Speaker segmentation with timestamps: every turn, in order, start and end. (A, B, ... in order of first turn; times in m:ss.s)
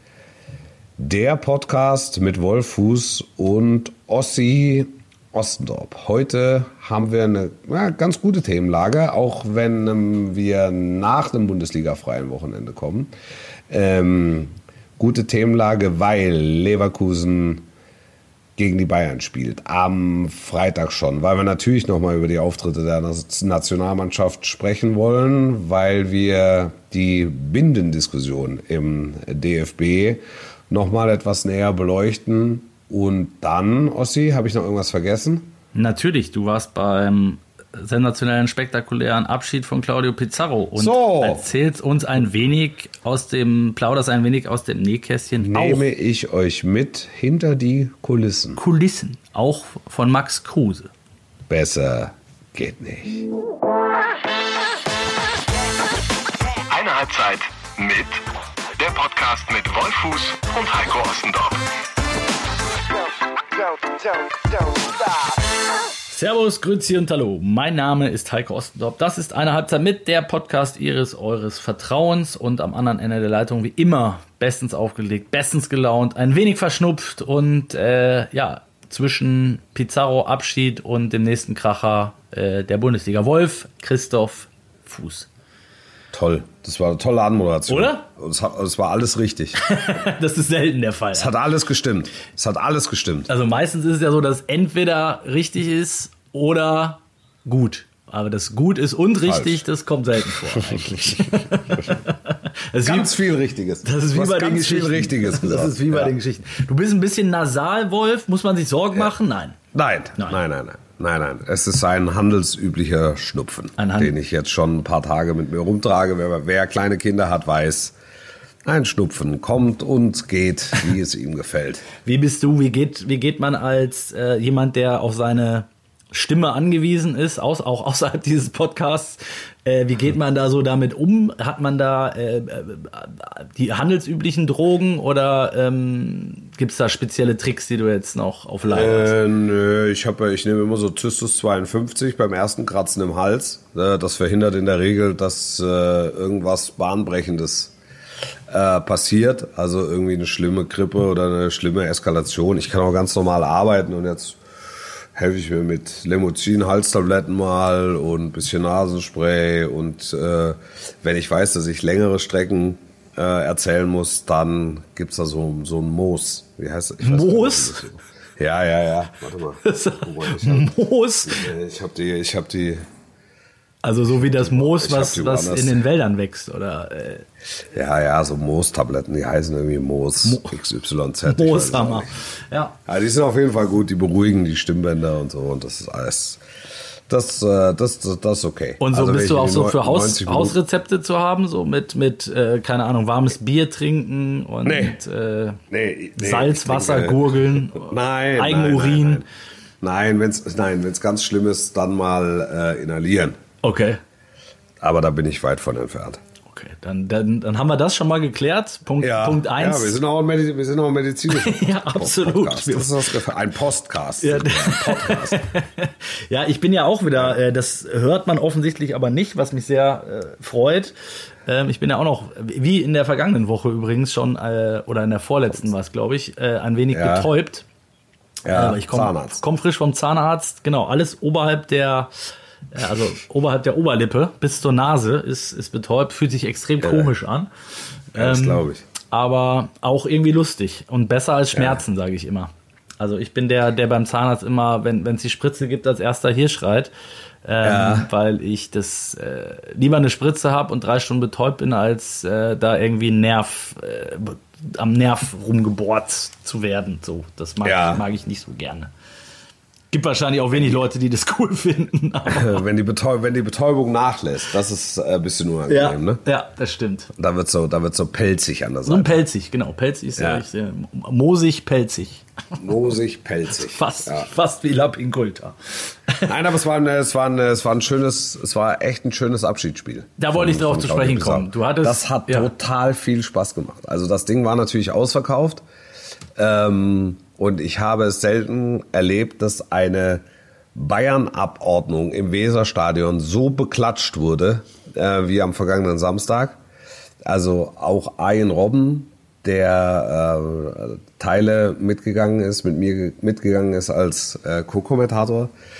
0:01.0-0:13.1 A
0:13.7-0:17.6 A
0:18.6-0:35.5 A
0:35.7-0:45.9 B
0:40.8-0:41.4 A
0:45.4-0:48.6 A
0:48.6-0:50.9 B
0:51.5-0:53.3 A
0:56.7-0:58.2 C
0:58.8-1:01.6 C
1:06.1-1:25.3 B
1:26.1-1:29.6 A
1:27.7-1:28.0 B
1:29.6-1:31.3 B
1:31.1-1:33.3 A
1:33.3-1:43.1 B
1:39.2-1:39.6 A
1:40.4-1:42.0 A
1:42.8-1:46.1 A
1:43.8-1:49.6 B
1:49.7-1:58.0 A
1:53.8-1:54.1 B
1:58.6-2:01.9 A
2:02.0-2:19.1 B
2:18.7-2:27.7 A
2:28.5-2:34.4 A
2:35.1-2:52.8 A
2:47.0-2:47.8 B
2:49.6-2:51.5 B
2:53.8-2:57.2 B
2:54.3-2:55.8 A
2:57.7-3:02.1 A
3:00.2-3:00.6 B
3:01.2-3:02.8 B
3:02.9-3:06.4 A
3:07.1-3:10.6 A
3:08.8-3:15.6 B
3:14.6-3:15.0 A
3:15.7-3:19.2 A
3:16.2-3:19.2 B
3:19.8-3:23.4 A
3:23.6-3:24.0 B
3:24.8-3:26.2 A
3:26.5-3:30.0 B
3:29.0-3:35.5 A
3:31.3-3:33.2 B
3:34.2-3:40.9 B
3:41.4-3:47.7 B
3:46.9-3:47.3 A
3:48.4-3:49.4 A
3:48.5-3:52.1 B
3:52.7-3:57.5 B
3:56.8-3:57.1 A
3:58.1-4:06.9 B
3:58.2-3:58.8 A
4:01.5-4:01.8 A
4:07.4-4:18.9 B
4:07.6-4:08.1 A
4:17.6-4:18.0 A
4:19.9-4:22.6 B
4:22.3-4:26.2 A
4:25.7-4:27.1 B
4:27.2-4:29.2 A
4:28.9-4:32.2 B
4:30.2-4:30.4 A
4:32.6-4:34.3 A
4:33.5-4:36.3 B
4:36.2-4:45.6 A
4:40.2-4:42.5 B
4:46.4-4:50.2 A
4:50.8-4:56.6 A
4:57.2-5:05.5 A